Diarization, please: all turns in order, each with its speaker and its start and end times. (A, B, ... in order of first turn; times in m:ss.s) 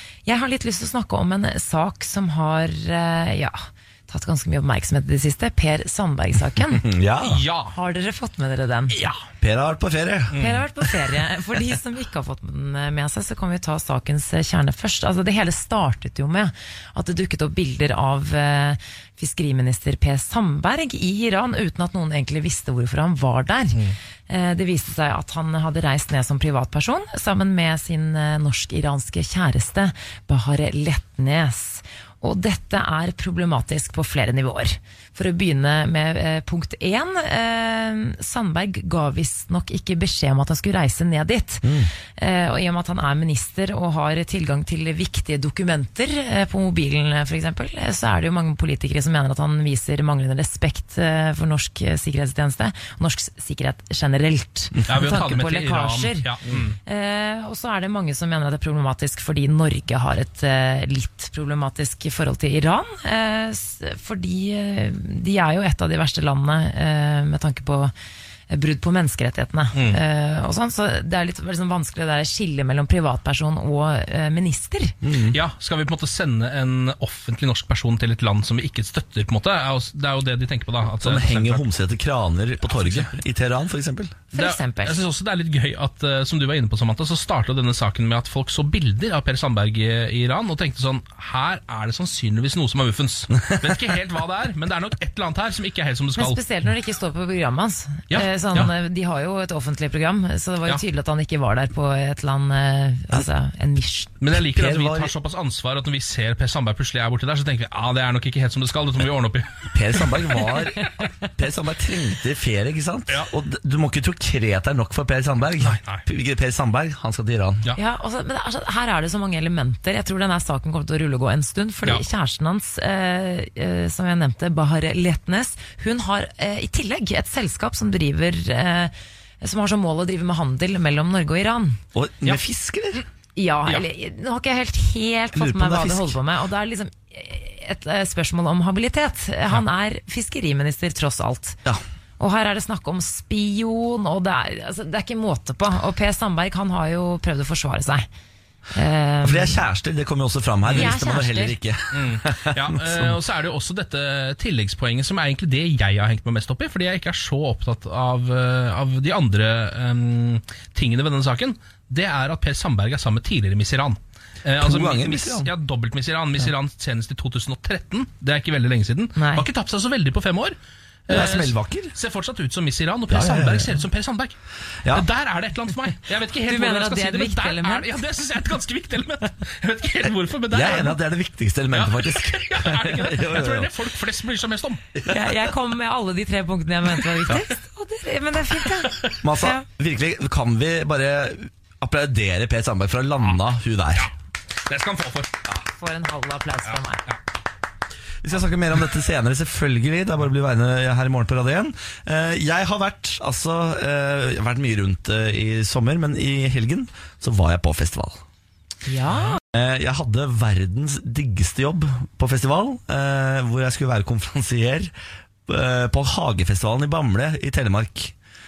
0:00.2-0:06.9 A
0:06.7-0:07.4 B
0:07.2-0:07.7 C
0:07.7-0:09.0 A
0:09.4-0:10.4 B
0:10.3-0:10.6 C
0:10.4-1:07.9 A
0:41.6-0:41.9 B
0:54.9-0:56.8 C
1:08.5-1:15.0 A
1:15.0-1:15.4 B
1:15.3-1:21.7 C
1:21.0-1:24.2 B
1:22.6-1:23.2 C
1:24.3-1:25.0 A
1:24.3-1:36.4 C
1:36.2-1:44.1 A
1:38.1-1:38.7 C
1:44.2-1:50.6 C
1:44.3-1:45.1 B
1:49.7-1:57.7 B
1:55.6-1:56.0 C
1:57.8-2:11.8 A
2:11.9-2:13.0 B
2:13.4-2:21.6 A
2:15.3-2:16.2 B
2:22.2-2:28.1 A
2:28.7-2:29.6 A
2:29.2-2:33.2 B
2:30.7-2:31.6 A
2:31.9-2:54.3 C
2:44.6-2:45.5 B
2:49.2-2:49.4 A
2:51.1-2:51.9 B
2:53.1-2:53.8 B
2:54.9-3:01.0 C
2:56.4-2:58.0 A
3:00.5-3:03.7 B
3:01.7-3:04.8 C
3:05.0-3:05.4 B
3:05.0-3:09.6 A
3:08.8-3:09.2 C
3:09.2-3:14.1 B
3:14.6-3:15.4 C
3:15.8-3:17.0 A
3:16.7-3:17.2 C
3:18.2-3:28.2 B
3:28.8-3:29.4 A
3:29.5-3:34.9 B
3:35.5-3:38.1 B